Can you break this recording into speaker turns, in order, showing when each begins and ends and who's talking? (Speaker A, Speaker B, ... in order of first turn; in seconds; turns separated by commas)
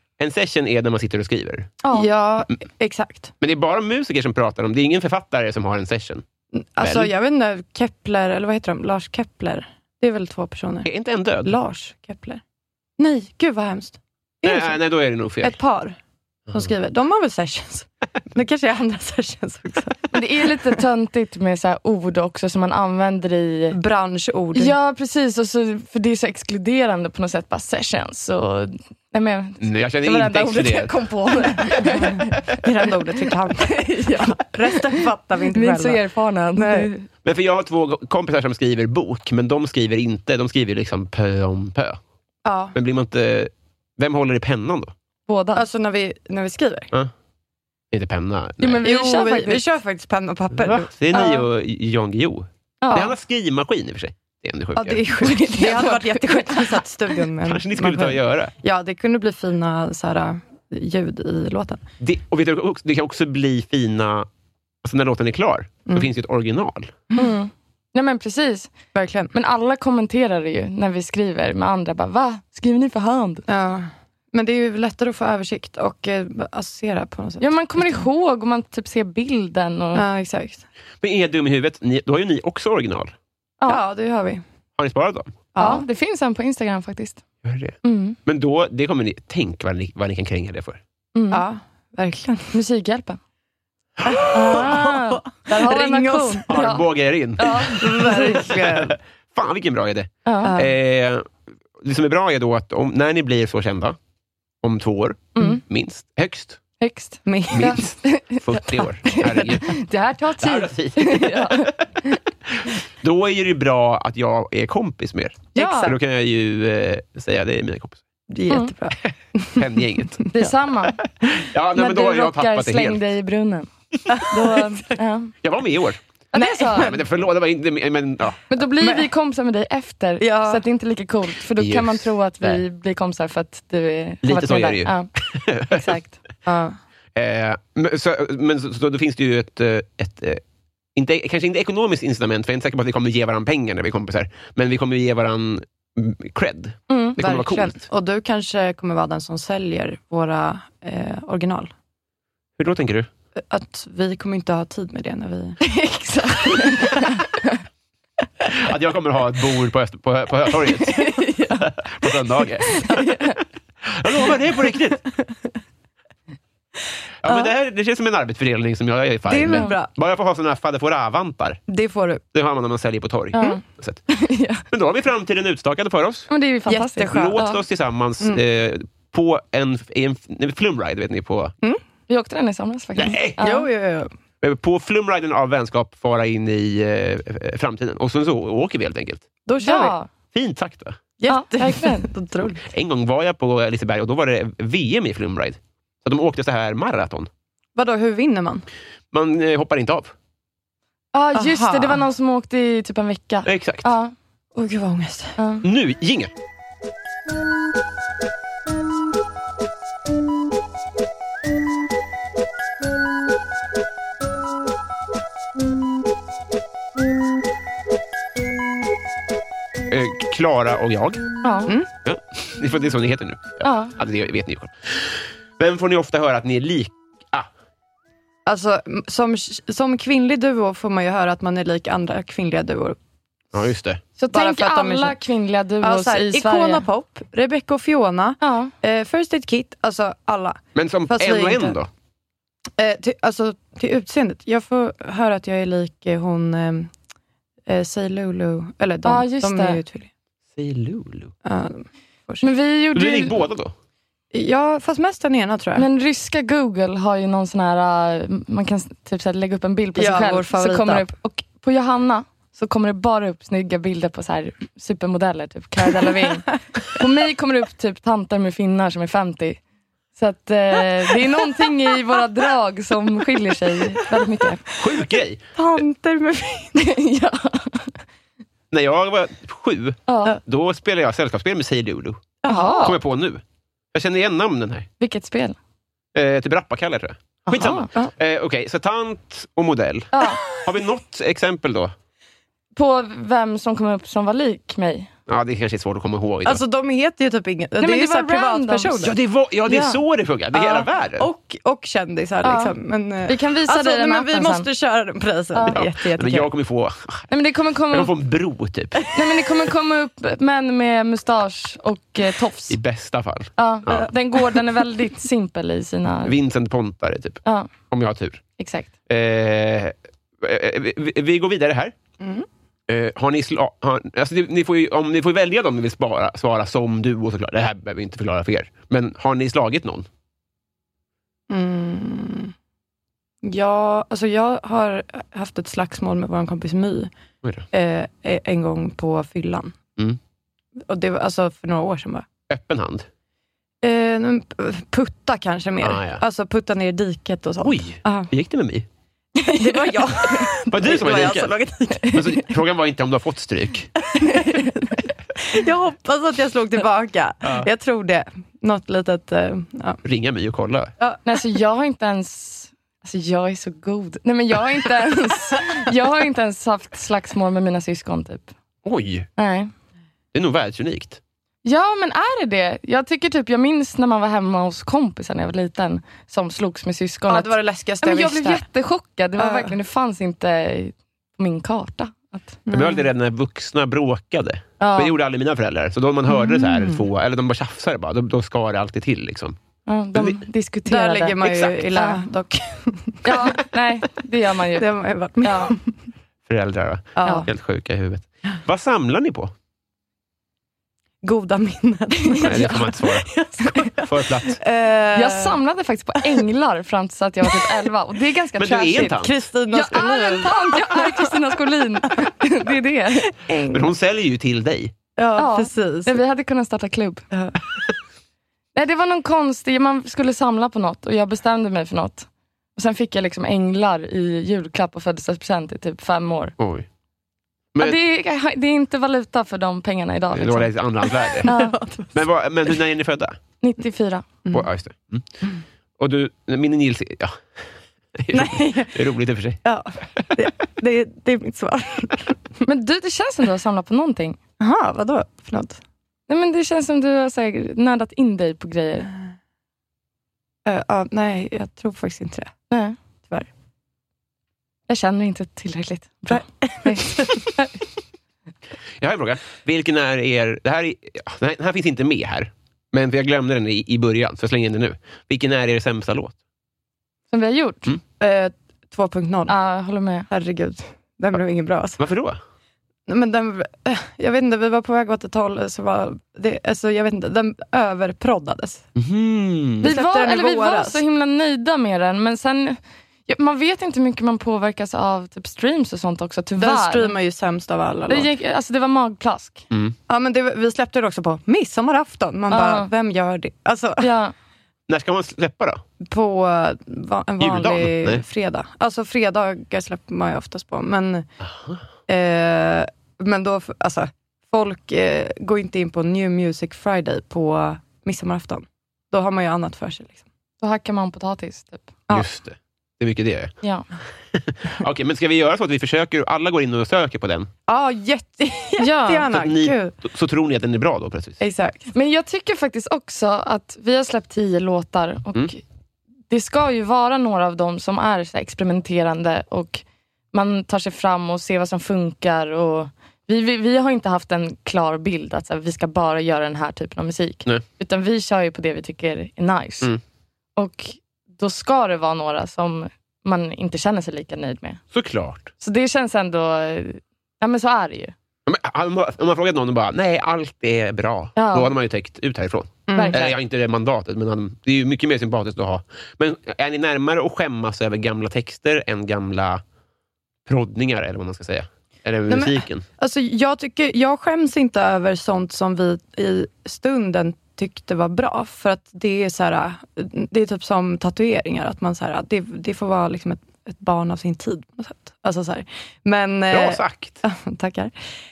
Speaker A: 0.2-1.8, Speaker B: 1.8-2.1, Speaker C: 1.9-3.3, Speaker A: 3.4-6.2, Speaker C: 6.5-10.9, Speaker A: 6.8-7.1, Speaker A: 10.8-11.6, Speaker C: 11.4-12.4, Speaker C: 13.0-14.8, Speaker A: 14.4-15.6, Speaker C: 15.4-16.0, Speaker C: 16.5-20.5, Speaker B: 20.1-23.8, Speaker C: 23.7-24.8, Speaker B: 24.6-32.4, Speaker A: 29.6-30.9, Speaker C: 32.6-36.0, Speaker B: 33.6-34.9, Speaker B: 35.5-37.0, Speaker C: 36.6-36.9, Speaker A: 37.2-42.0, Speaker C: 42.5-42.8, Speaker A: 42.7-44.9, Speaker B: 45.3-45.6, Speaker C: 45.5-46.9, Speaker A: 47.9-48.8, Speaker B: 48.6-49.6, Speaker C: 48.8-51.4, Speaker A: 50.5-55.0, Speaker B: 52.8-53.1, Speaker C: 54.8-61.8, Speaker B: 55.2-56.9, Speaker A: 57.5-58.5, Speaker A: 62.0-64.3, Speaker A: 64.8-66.9, Speaker B: 67.2-68.7, Speaker C: 68.9-69.3, Speaker B: 69.3-73.4, Speaker C: 73.5-78.0, Speaker B: 77.4-80.0, Speaker C: 79.9-80.6, Speaker A: 81.0-83.1, Speaker C: 83.7-84.4, Speaker A: 84.8-85.3, Speaker C: 85.5-85.8, Speaker B: 85.6-87.2, Speaker A: 87.4-90.8, Speaker B: 87.8-88.2, Speaker B: 91.2-91.5, Speaker C: 91.3-92.5, Speaker B: 92.5-93.2, Speaker C: 94.1-96.5, Speaker B: 94.3-96.9, Speaker A: 96.5-101.3, Speaker B: 97.4-98.5, Speaker C: 97.5-99.0, Speaker B: 100.2-100.5, Speaker C: 100.4-100.7, Speaker A: 101.8-104.0, Speaker A: 104.6-106.6, Speaker B: 105.4-105.6, Speaker B: 106.8-112.2, Speaker C: 107.2-107.8, Speaker A: 107.5-109.7, Speaker A: 110.4-111.8, Speaker A: 113.0-118.0, Speaker B: 115.5-115.9, Speaker C: 115.6-115.9, Speaker C: 118.3-119.8, Speaker A: 119.6-120.2, Speaker B: 120.3-121.0, Speaker A: 121.2-123.0, Speaker B: 121.8-123.7, Speaker C: 124.1-125.0, Speaker B: 124.3-125.3, Speaker A: 125.4-126.0, Speaker B: 126.3-126.9, Speaker C: 126.3-127.0, Speaker A: 126.8-128.4, Speaker B: 128.5-135.1, Speaker C: 128.8-129.1, Speaker C: 130.2-130.6, Speaker A: 131.6-132.6, Speaker A: 134.2-135.8, Speaker B: 135.7-136.1, Speaker C: 136.4-136.8, Speaker A: 137.2-140.4, Speaker A: 140.9-147.8, Speaker B: 146.9-147.2, Speaker C: 147.2-151.7, Speaker A: 152.6-153.1, Speaker C: 153.4-155.6, Speaker B: 155.6-157.5, Speaker A: 158.5-162.9, Speaker B: 160.8-161.7, Speaker B: 162.7-163.4, Speaker A: 163.9-165.0, Speaker A: 167.2-171.6, Speaker C: 167.2-167.5, Speaker C: 169.3-169.9, Speaker B: 169.5-169.8, Speaker C: 171.7-172.2, Speaker A: 172.3-174.0, Speaker B: 173.3-174.6, Speaker A: 174.7-176.3, Speaker B: 176.3-177.6, Speaker C: 176.7-177.4, Speaker A: 177.1-181.5, Speaker B: 182.1-183.7, Speaker A: 183.0-183.4, Speaker C: 183.4-184.1, Speaker A: 184.4-189.2, Speaker C: 189.5-189.9, Speaker B: 189.6-190.1, Speaker A: 190.3-191.0, Speaker C: 191.2-192.7, Speaker B: 191.3-192.1, Speaker A: 192.7-197.3, Speaker C: 197.8-198.7, Speaker A: 199.1-200.1, Speaker B: 201.1-204.1, Speaker C: 201.3-202.1, Speaker A: 203.5-203.9, Speaker C: 204.6-205.4, Speaker B: 205.4-205.7, Speaker A: 205.6-206.3, Speaker A: 219.9-221.3, Speaker B: 221.4-221.7, Speaker A: 222.1-227.5, Speaker B: 223.6-223.9, Speaker C: 228.5-233.0, Speaker A: 233.5-234.0, Speaker B: 234.2-236.8, Speaker C: 234.3-235.2, Speaker C: 235.8-241.8, Speaker B: 238.4-238.7, Speaker A: 240.8-241.9, Speaker C: 242.8-246.9, Speaker C: 247.7-250.1, Speaker B: 249.0-249.8, Speaker A: 250.6-251.3, Speaker C: 251.4-252.4, Speaker B: 252.4-253.4, Speaker A: 252.9-253.7, Speaker C: 254.3-255.9, Speaker B: 255.8-269.6, Speaker C: 260.0-261.1, Speaker B: 270.2-274.6, Speaker A: 274.8-275.4, Speaker C: 275.6-276.8, Speaker B: 276.8-278.0, Speaker A: 278.7-283.4, Speaker B: 280.1-280.4, Speaker C: 282.4-282.9, Speaker B: 282.5-283.0, Speaker A: 283.9-284.9, Speaker B: 285.0-285.6, Speaker A: 286.1-291.9, Speaker B: 287.5-287.9, Speaker B: 290.1-290.4, Speaker B: 292.8-295.1, Speaker A: 295.3-296.6, Speaker C: 296.4-299.1, Speaker B: 297.8-299.0, Speaker A: 299.0-301.3, Speaker B: 299.7-300.0, Speaker C: 300.5-306.5, Speaker B: 302.4-302.8, Speaker B: 303.3-304.7, Speaker B: 305.5-305.8, Speaker A: 305.7-307.3, Speaker B: 307.3-308.1, Speaker A: 307.9-309.0, Speaker B: 309.1-312.8, Speaker A: 312.7-314.1, Speaker B: 313.6-316.4, Speaker A: 316.2-318.4, Speaker B: 317.4-317.7, Speaker B: 318.6-318.9, Speaker A: 319.1-321.9, Speaker C: 322.2-322.5, Speaker A: 322.9-330.1, Speaker C: 331.5-332.5, Speaker C: 333.4-337.1, Speaker C: 337.7-339.8, Speaker C: 340.9-342.3, Speaker A: 342.5-343.1, Speaker C: 343.8-348.3, Speaker A: 345.8-346.2, Speaker A: 347.6-348.9, Speaker C: 349.4-352.4, Speaker B: 349.6-350.4, Speaker A: 350.7-351.5, Speaker A: 352.1-353.9, Speaker C: 354.1-354.8, Speaker B: 354.2-354.8, Speaker C: 355.4-360.0, Speaker A: 360.0-360.9, Speaker B: 361.2-368.5, Speaker A: 368.9-369.3, Speaker B: 369.4-369.7, Speaker A: 370.3-371.2, Speaker B: 371.6-382.6, Speaker C: 377.3-378.6, Speaker C: 379.4-379.8, Speaker C: 382.7-383.1, Speaker A: 382.7-389.6, Speaker B: 384.8-385.1, Speaker C: 386.3-387.1, Speaker B: 389.9-392.2, Speaker C: 390.9-393.6, Speaker B: 393.2-394.9, Speaker C: 394.8-395.9, Speaker B: 395.4-395.7, Speaker A: 396.5-399.5, Speaker C: 397.2-397.5, Speaker C: 401.2-405.6, Speaker B: 402.3-402.9, Speaker A: 402.4-403.3, Speaker A: 404.0-404.6, Speaker B: 405.1-409.2, Speaker A: 408.6-409.4, Speaker C: 409.1-411.4, Speaker B: 409.7-413.3, Speaker C: 413.5-413.9, Speaker A: 413.7-414.9, Speaker C: 415.2-416.2, Speaker B: 415.4-417.2, Speaker C: 417.3-417.6, Speaker B: 418.8-426.5, Speaker A: 426.6-426.9, Speaker B: 427.8-430.7, Speaker A: 430.3-431.5, Speaker C: 431.3-432.2, Speaker B: 431.4-431.8, Speaker A: 432.1-433.4, Speaker B: 433.6-434.3, Speaker A: 434.5-435.2, Speaker A: 436.0-437.4, Speaker A: 438.2-439.6, Speaker C: 438.3-439.0, Speaker C: 439.6-442.4, Speaker B: 442.6-444.4, Speaker C: 444.6-445.8, Speaker B: 446.3-449.1, Speaker C: 450.6-452.5, Speaker B: 452.7-453.0, Speaker B: 454.9-457.8, Speaker C: 456.3-457.5, Speaker A: 459.0-466.4, Speaker B: 467.3-468.0, Speaker C: 468.2-469.6, Speaker B: 469.5-470.3, Speaker C: 470.3-472.0, Speaker A: 472.0-472.4, Speaker C: 473.1-478.9, Speaker A: 479.0-479.9, Speaker C: 479.8-481.0, Speaker B: 479.8-487.2, Speaker C: 486.6-488.3, Speaker B: 488.1-489.6, Speaker C: 490.1-494.1, Speaker B: 492.5-492.9, Speaker B: 494.0-494.3, Speaker A: 494.9-495.8, Speaker C: 496.1-501.3, Speaker A: 497.4-498.2, Speaker A: 501.4-501.8, Speaker C: 502.1-510.2, Speaker B: 510.6-511.9, Speaker A: 512.1-513.5, Speaker A: 514.3-517.5, Speaker C: 517.7-519.9, Speaker B: 518.8-519.3, Speaker A: 519.3-521.4, Speaker C: 521.4-521.9, Speaker B: 521.9-525.6, Speaker B: 526.3-539.9, Speaker B: 540.6-544.8, Speaker A: 544.9-545.5, Speaker B: 545.6-548.1, Speaker A: 548.5-559.6, Speaker B: 551.4-551.7, Speaker C: 552.9-553.3, Speaker B: 552.9-553.3, Speaker A: 560.5-562.9, Speaker C: 562.3-577.9, Speaker A: 576.5-577.2